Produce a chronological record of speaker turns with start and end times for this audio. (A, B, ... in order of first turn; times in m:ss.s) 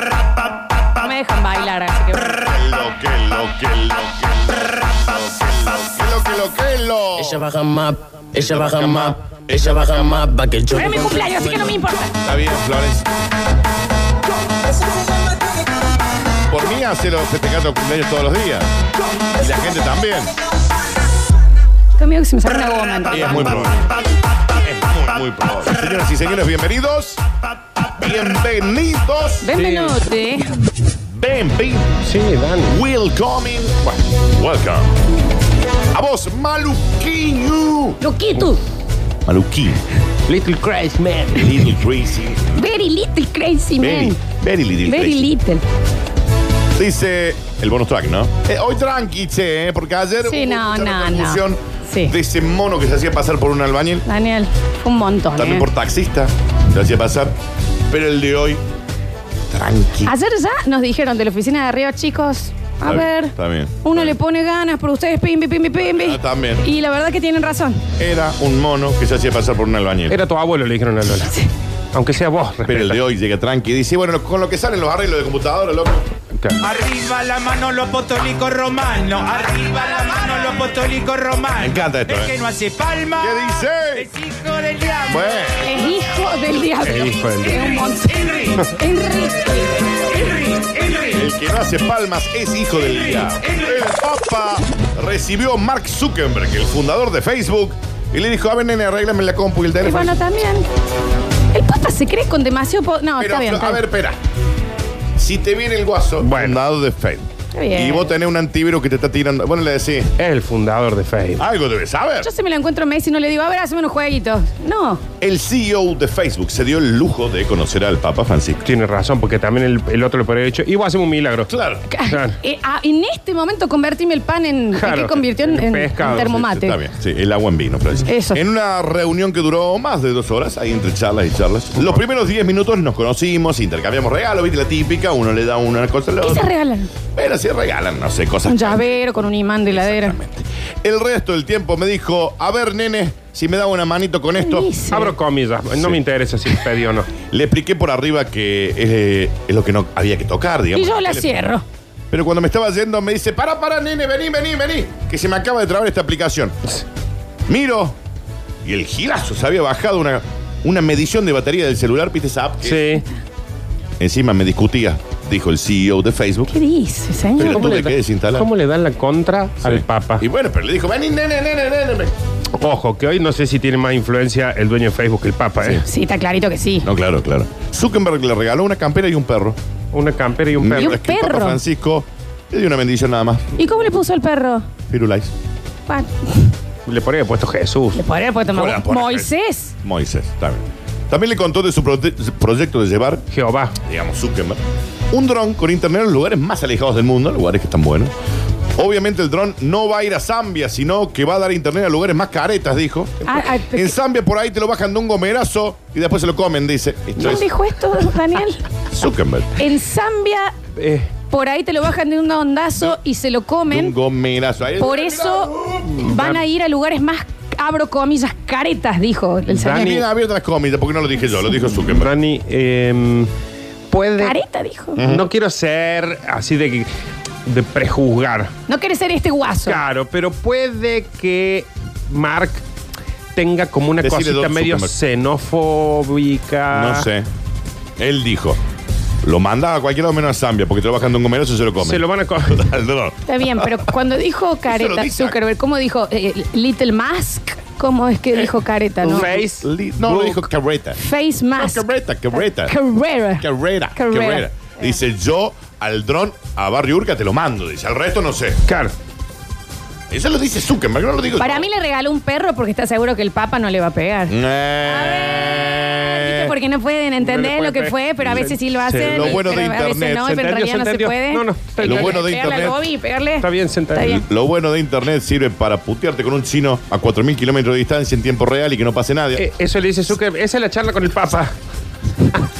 0:00.9-0:02.6 A
0:02.3-0:07.5 B
0:07.2-0:11.8 C
0:08.3-0:10.3 B
0:10.7-0:12.1 A
0:12.2-0:13.0 B
0:16.5-0:18.7 B
0:19.3-0:20.3 B
0:22.0-0:23.7 A
0:23.1-0:23.8 B
0:23.3-0:23.8 D
0:24.6-0:27.2 B
0:28.0-0:29.5 B
0:29.4-0:30.5 A
0:29.5-0:30.0 D
0:31.1-0:32.0 B
0:32.0-0:32.8 D
0:32.6-0:34.9 B
0:35.9-0:38.0 B
0:38.0-0:38.6 A
0:39.2-0:39.8 B
0:40.3-0:41.7 D
0:41.3-0:42.6 B
0:42.5-0:44.2 A
0:43.8-0:45.3 B
0:44.8-0:45.6 A
0:46.8-0:54.0 B
0:50.2-0:52.1 A
0:54.0-0:55.7 A
0:55.3-0:57.3 B
0:57.9-0:58.6 B
0:59.5-1:00.1 B
1:00.0-1:07.8 A
1:02.8-1:04.1 B
1:05.9-1:06.6 B
1:08.0-1:10.2 B
1:10.1-1:11.4 D
1:11.2-1:11.5 A
1:11.9-1:13.0 D
1:12.6-1:16.0 B
1:16.4-1:16.6 D
1:16.6-1:25.2 E
1:21.6-1:22.4 B
1:23.2-1:24.1 B
1:25.1-1:25.7 B
1:25.6-1:30.2 A
1:26.8-1:27.8 D
1:30.2-1:30.7 E
1:30.8-1:31.0 D
1:31.1-1:40.2 B
1:39.8-1:40.6 A
1:41.5-1:43.8 A
1:43.2-1:44.2 B
1:45.2-1:50.1 B
1:46.2-1:46.6 D
1:47.5-1:48.1 A
1:50.2-1:51.4 D
1:51.4-1:52.3 B
1:52.2-1:55.0 A
1:55.2-1:58.6 B
1:58.6-2:01.5 D
2:01.5-2:01.9 B
2:01.9-2:06.8 A
2:02.0-2:02.4 D
2:04.7-2:06.4 D
2:06.2-2:16.5 B
2:08.1-2:08.4 A
2:16.2-2:16.9 A
2:17.1-2:24.7 B
2:18.5-2:20.2 A
2:24.4-2:25.1 A
2:24.9-2:27.1 D
2:25.7-2:26.0 B
2:27.3-2:31.5 B
2:30.7-2:31.6 A
2:32.1-2:36.5 B
2:37.5-2:38.0 B
2:38.6-2:42.9 B
2:42.6-2:43.0 D
2:44.0-2:46.5 B
2:46.5-2:47.7 A
2:47.4-2:48.5 B
2:47.4-2:50.2 D
2:49.6-2:52.1 B
2:52.6-2:55.8 D
2:55.6-2:55.8 B
2:55.8-2:56.9 A
2:56.8-2:59.6 B
2:59.9-3:01.0 D
3:00.6-3:03.4 B
3:00.7-3:01.6 A
3:03.6-3:04.6 A
3:04.9-3:05.3 B
3:05.9-3:06.5 A
3:06.9-3:08.0 D
3:07.9-3:09.7 A
3:08.4-3:09.3 B
3:09.8-3:13.2 B
3:13.3-3:13.8 D
3:13.8-3:18.1 B
3:18.8-3:27.5 B
3:23.2-3:24.0 A
3:27.2-3:28.6 A
3:28.9-3:29.6 B
3:29.6-3:30.5 A
3:30.8-3:31.1 D
3:31.3-3:33.9 A
3:33.7-3:35.8 B
3:34.8-3:39.8 A
3:36.0-3:36.4 D
3:39.5-3:40.0 D
3:39.7-3:42.1 B
3:41.7-3:43.3 D
3:43.9-3:44.4 D
3:44.2-3:45.0 A
3:45.0-3:45.2 B
3:45.0-3:46.9 D
3:47.4-3:48.5 D
3:48.7-3:49.8 A
3:49.6-3:52.6 D
3:53.3-3:57.1 D
3:54.0-3:54.9 B
3:56.7-3:57.3 B
3:58.0-3:58.6 B
3:59.2-4:03.8 B
4:01.8-4:02.8 D
4:03.2-4:09.4 A
4:04.7-4:05.4 B
4:09.0-4:10.5 D
4:09.2-4:11.0 B
4:11.0-4:14.9 A
4:11.6-4:12.7 B
4:13.4-4:18.6 B
4:18.7-4:18.9 D
4:20.1-4:21.7 B
4:21.4-4:34.2 A
4:24.3-4:26.5 B
4:27.2-4:29.7 D
4:28.2-4:30.4 B
4:30.3-4:32.8 D
4:31.8-4:32.8 B
4:33.4-4:34.2 D
4:34.0-4:39.5 B
4:39.4-4:41.5 D